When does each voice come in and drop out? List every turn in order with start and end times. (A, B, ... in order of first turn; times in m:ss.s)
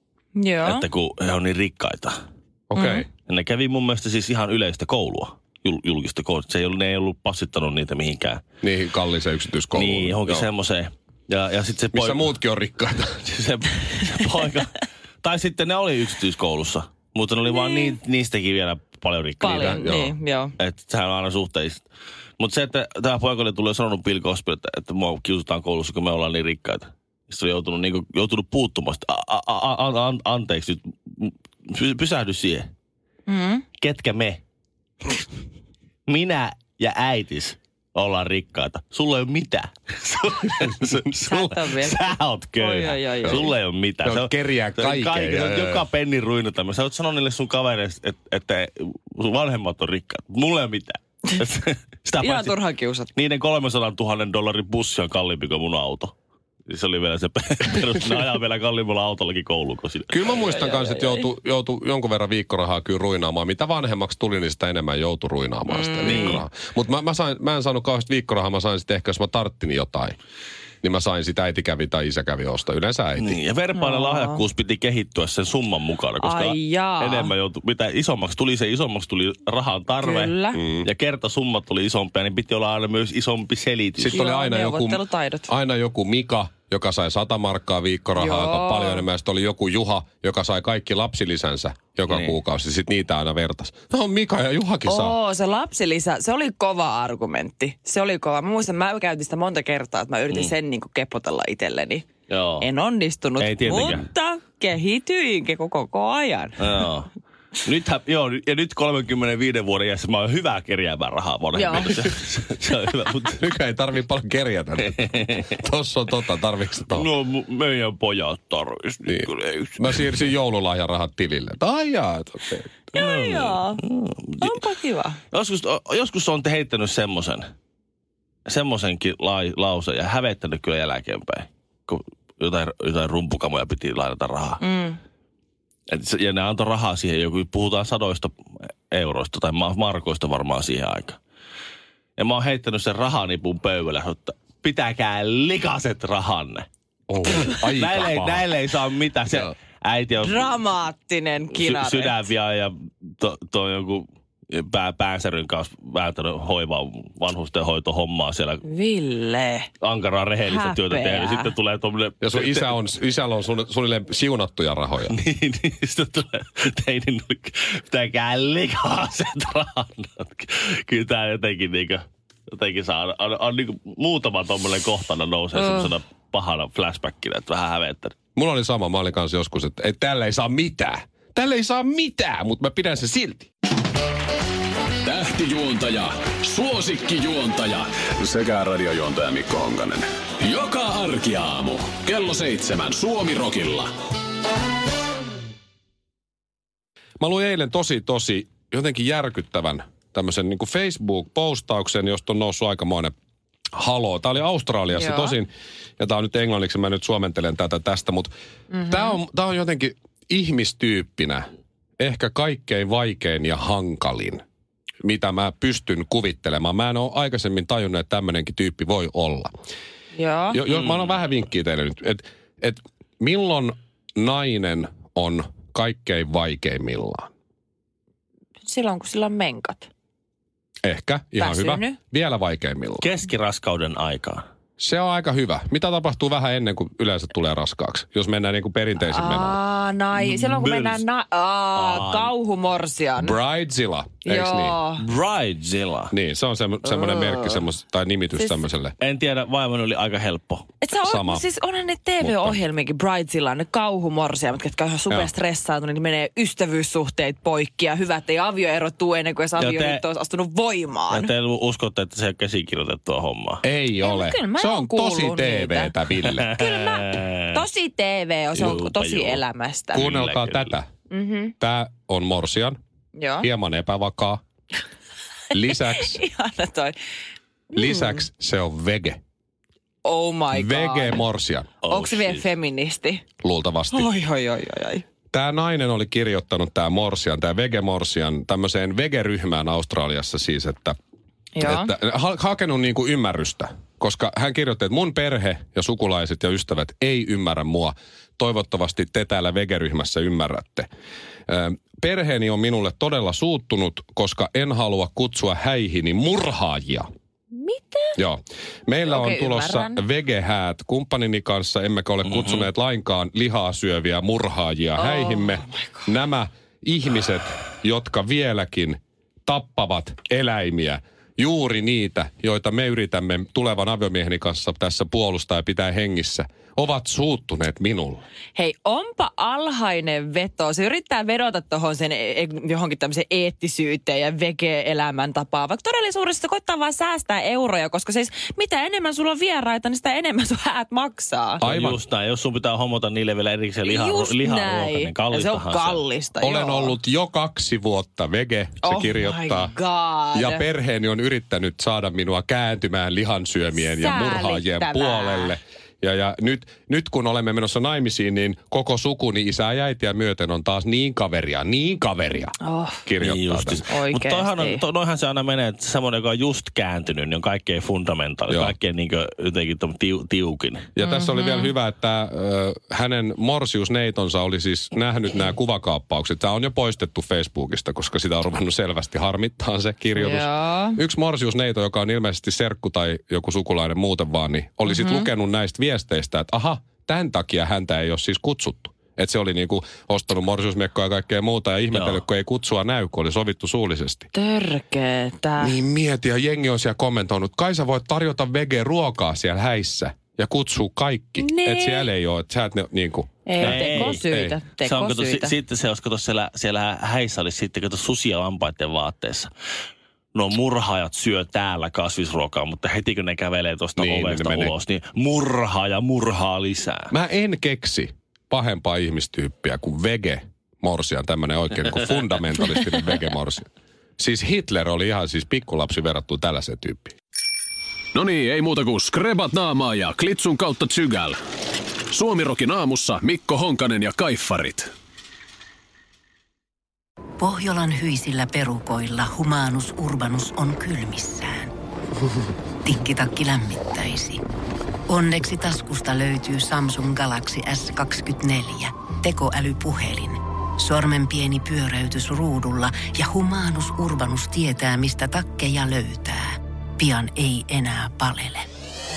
0:00.4-0:00.8 A
0:00.6-0:02.2 B
0:02.7-0:03.1 C
0:02.7-0:03.0 A
0:03.3-0:08.4 B
0:08.6-0:10.5 C
0:09.7-0:12.3 B
0:11.9-0:13.2 C
0:13.2-0:20.0 B
0:17.4-0:18.0 A
0:19.4-0:20.5 A
0:19.6-0:20.1 C
0:20.6-0:21.8 B
0:22.4-0:32.7 B
0:33.3-0:33.6 A
0:33.8-0:34.4 B
0:36.1-0:52.5 B
0:41.2-0:42.0 A
0:42.6-0:43.5 A
0:44.0-0:45.8 C
0:52.2-0:53.1 A
0:53.1-0:56.1 B
0:56.7-1:00.5 B
1:00.1-1:10.2 C
1:00.6-1:01.2 A
1:05.7-1:06.4 A
1:06.0-1:06.4 B
1:10.8-1:13.4 C
1:13.2-1:24.2 B
1:13.8-1:14.4 A
1:16.2-1:17.3 A
1:20.0-1:20.6 A
1:20.5-1:20.9 C
1:24.0-1:35.2 C
1:24.1-1:25.5 A
1:28.2-1:29.0 A
1:32.1-1:32.4 B
1:34.8-1:42.1 A
1:42.3-1:42.6 B
1:42.6-1:46.7 A
1:43.4-1:44.1 B
1:46.6-1:47.1 B
1:47.6-1:53.4 B
1:51.5-1:52.1 A
1:53.4-1:57.1 C
1:54.8-1:55.5 B
1:56.9-2:00.3 B
1:59.0-2:02.8 C
2:02.9-2:03.8 A
2:02.9-2:04.6 B
2:04.4-2:05.2 A
2:05.3-2:07.5 B
2:08.5-2:14.6 B
2:14.6-2:15.0 A
2:15.9-2:18.3 B
2:18.9-2:21.2 B
2:22.2-2:26.6 B
2:27.1-2:28.5 C
2:27.3-2:30.6 B
2:30.2-2:32.3 A
2:31.5-2:38.6 B
2:38.6-2:39.7 A
2:39.8-2:42.8 B
2:40.4-2:41.5 A
2:42.2-2:45.1 C
2:45.1-2:58.1 B
2:55.6-2:55.9 A
2:58.4-3:03.5 C
3:05.0-3:13.9 D
3:17.2-3:23.1 C
3:23.7-3:28.3 C
3:24.9-3:25.4 A
3:28.7-3:29.2 A
3:28.8-3:31.4 C
3:32.0-3:34.4 C
3:35.0-3:39.5 C
3:40.1-3:40.6 A
3:40.5-3:47.3 C
3:48.6-3:49.9 A
3:50.8-3:53.1 C
3:51.4-3:52.0 A
3:53.0-3:54.4 B
3:54.8-3:59.6 C
3:59.0-4:03.4 A
4:00.2-4:01.0 B
4:01.8-4:02.3 B
4:03.2-4:04.8 C
4:04.2-4:05.0 A
4:05.0-4:06.1 B
4:06.1-4:08.9 C
4:06.8-4:07.6 A
4:08.3-4:08.6 A
4:09.0-4:10.7 B
4:10.8-4:21.3 A
4:11.0-4:11.4 C
4:12.2-4:12.6 C
4:19.6-4:20.0 B
4:21.1-4:23.6 B
4:23.6-4:26.5 C
4:24.0-4:25.9 A
4:26.2-4:27.6 B
4:26.5-4:30.0 A
4:28.5-4:29.4 B
4:29.9-4:30.9 C
4:29.9-4:30.8 B
4:31.1-4:31.5 A
4:31.6-4:32.8 C
4:33.2-4:33.5 A
4:33.4-4:34.4 C
4:35.5-4:36.2 C
4:35.6-4:36.9 A
4:37.7-4:38.2 A
4:37.7-4:39.2 C
4:40.0-4:41.2 A
4:40.5-4:41.7 C
4:41.8-4:42.5 B
4:41.8-4:43.2 A
4:43.4-4:44.1 C
4:43.9-4:45.0 A
4:45.3-4:51.0 C
4:51.5-4:51.9 A
4:51.6-5:00.9 C
5:01.5-5:07.1 C
5:07.5-5:08.2 A
5:08.2-5:28.2 C
5:09.0-5:10.0 A
5:12.2-5:12.7 B
5:14.9-5:16.0 A
5:28.5-5:41.6 A
5:41.6-5:46.0 B
5:41.6-5:42.0 C
5:43.8-5:47.0 A
5:46.4-5:49.7 C
5:48.8-5:50.6 A
5:50.3-6:02.5 C
5:53.8-5:55.6 A
6:02.6-6:03.0 A
6:03.0-6:03.8 C
6:03.2-6:10.9 B
6:03.9-6:04.8 A
6:08.5-6:08.7 C
6:11.0-6:34.3 C
6:11.0-6:11.7 A
6:20.2-6:21.0 A
6:24.8-6:25.3 A
6:31.9-6:32.2 B
6:34.3-6:35.8 A
6:35.6-6:44.6 C
6:41.4-6:42.1 A
6:43.4-6:45.5 A
6:43.6-6:44.2 B
6:44.8-6:49.5 B
6:50.3-6:57.1 B
6:54.0-6:54.7 C
6:57.1-7:03.7 C
7:04.2-7:07.1 C
7:08.1-7:11.4 D
7:12.1-7:14.9 D
7:17.4-7:21.7 E
7:22.8-7:24.4 E
7:25.1-7:38.6 E